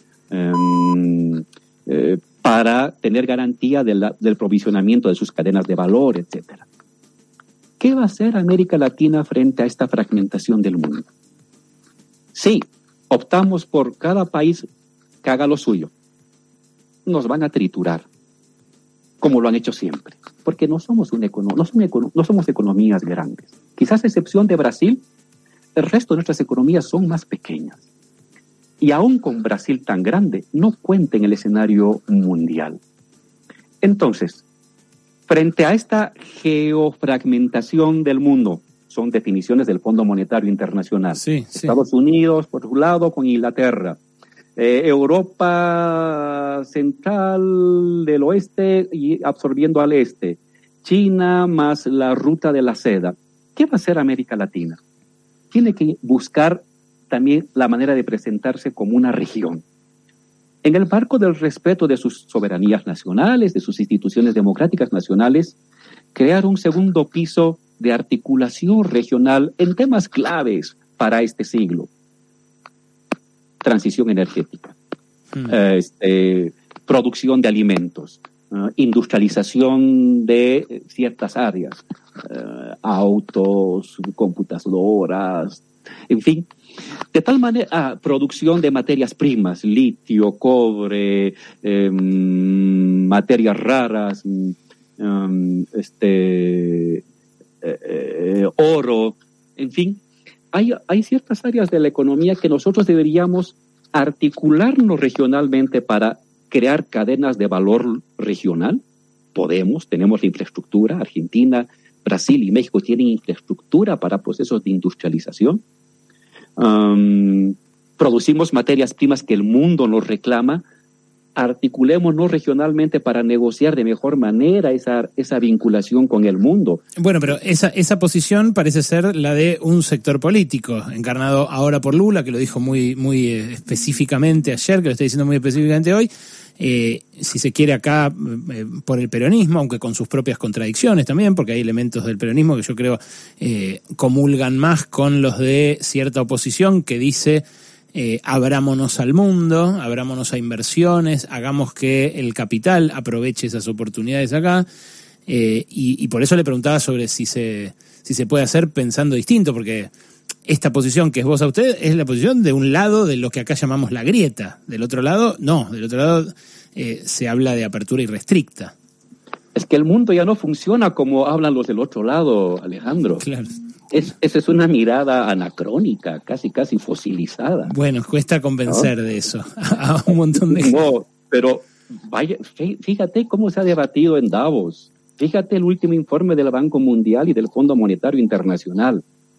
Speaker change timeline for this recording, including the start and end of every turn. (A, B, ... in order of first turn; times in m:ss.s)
0:00.3-0:06.6 A
0:07.8-0:11.1 A
0:12.3-0:14.6 A
0:15.2-0:15.9 A
0:17.0-0:18.0 A
0:19.2-0:25.0 A
0:25.7-0:27.8 A
0:28.8-0:32.8 A
0:33.8-0:34.4 A
0:35.3-0:44.0 A
0:41.2-0:41.7 B
0:44.6-0:54.8 A
0:55.5-0:59.6 A
1:00.6-1:05.6 A
1:06.1-1:11.9 A
1:13.6-1:14.8 A
1:15.4-1:26.5 A
1:27.1-1:37.0 A
1:37.6-1:40.0 A
1:40.5-1:48.8 A
1:49.3-1:55.6 A
1:56.6-2:00.6 A
2:01.4-2:06.8 A
2:07.0-2:34.6 B
2:35.3-2:39.9 B
2:40.4-2:48.7 B
2:49.5-2:53.2 A
2:53.2-2:53.5 B
2:53.9-2:57.7 A
2:57.6-3:00.7 B
3:00.5-3:09.0 A